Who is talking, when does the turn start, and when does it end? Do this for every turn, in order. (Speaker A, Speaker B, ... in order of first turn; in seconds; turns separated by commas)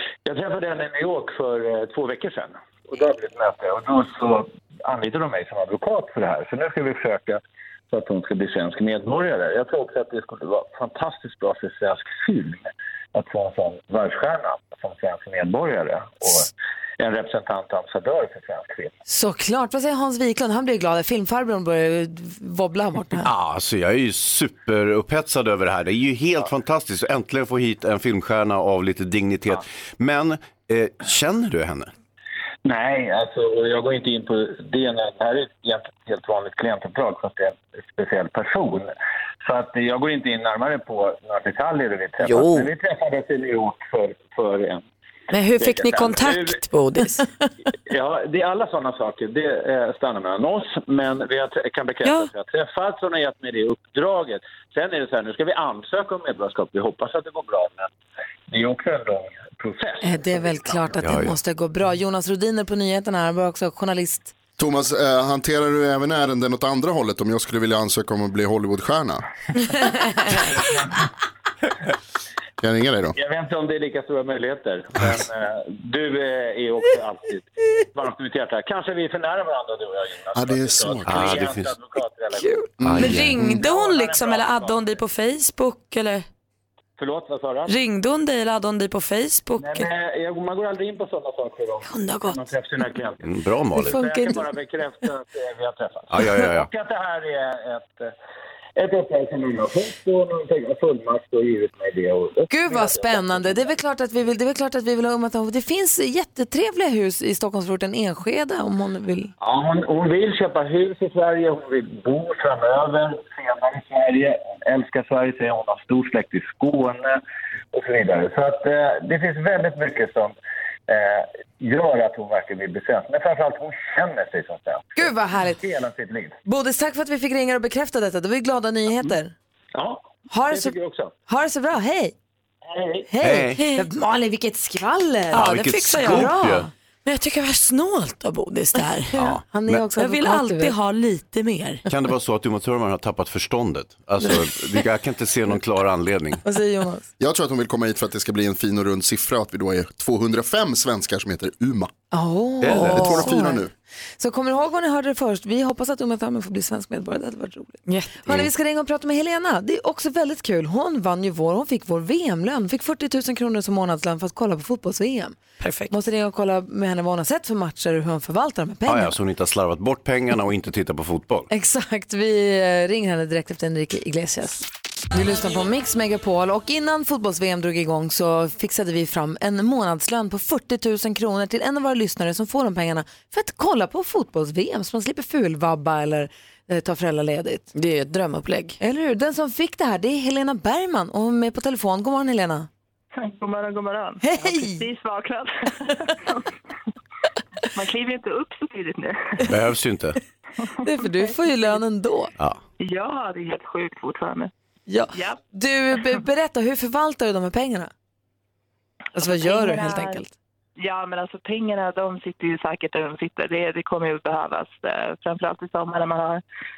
Speaker A: 0.2-18.9, Speaker B: 19.1-23.3, Speaker C: 23.2-31.9, Speaker A: 32.6-38.9, Speaker A: 39.4-44.8, Speaker D: 42.2-42.7, Speaker D: 45.3-47.4, Speaker A: 45.6-46.6, Speaker A: 47.9-57.9, Speaker D: 52.0-52.3, Speaker A: 58.5-61.0, Speaker B: 60.0-64.3, Speaker C: 61.0-61.4, Speaker E: 64.6-69.2, Speaker E: 72.6-73.2, Speaker A: 73.2-82.7, Speaker E: 80.4-81.5, Speaker C: 81.0-81.7, Speaker C: 82.8-83.5, Speaker D: 82.8-86.3, Speaker A: 83.5-85.0, Speaker A: 87.0-87.8, Speaker D: 87.7-89.9, Speaker A: 89.6-98.1, Speaker D: 91.9-92.4, Speaker C: 93.2-94.0, Speaker B: 93.7-94.5, Speaker C: 96.1-96.7, Speaker A: 98.8-103.7, Speaker B: 102.5-109.3, Speaker A: 109.4-117.2, Speaker A: 117.7-120.4, Speaker A: 120.9-126.4, Speaker B: 125.0-125.6, Speaker B: 126.5-129.3, Speaker A: 129.7-131.1, Speaker B: 130.3-130.8, Speaker B: 131.3-132.1, Speaker A: 132.7-133.1, Speaker B: 133.1-136.7, Speaker C: 133.2-133.6, Speaker D: 133.6-133.9, Speaker C: 135.3-136.7, Speaker D: 135.3-136.3, Speaker D: 137.1-139.2, Speaker C: 139.1-139.8, Speaker B: 139.4-140.7, Speaker D: 139.9-141.8, Speaker C: 141.9-146.4, Speaker B: 146.4-147.1, Speaker E: 147.2-151.9, Speaker B: 152.1-165.4, Speaker C: 152.6-153.2, Speaker E: 152.7-153.7, Speaker D: 157.9-158.3, Speaker D: 165.6-165.9, Speaker B: 165.9-169.2, Speaker C: 168.9-171.5, Speaker B: 171.5-187.7, Speaker D: 187.7-188.8, Speaker B: 188.8-192.7, Speaker F: 193.2-196.5, Speaker B: 194.2-194.8, Speaker F: 197.7-199.5, Speaker C: 199.5-200.2, Speaker B: 200.8-202.3, Speaker F: 202.8-204.5, Speaker B: 204.9-207.9, Speaker F: 205.1-205.4, Speaker B: 209.2-210.3, Speaker F: 209.2-210.2, Speaker F: 210.8-216.4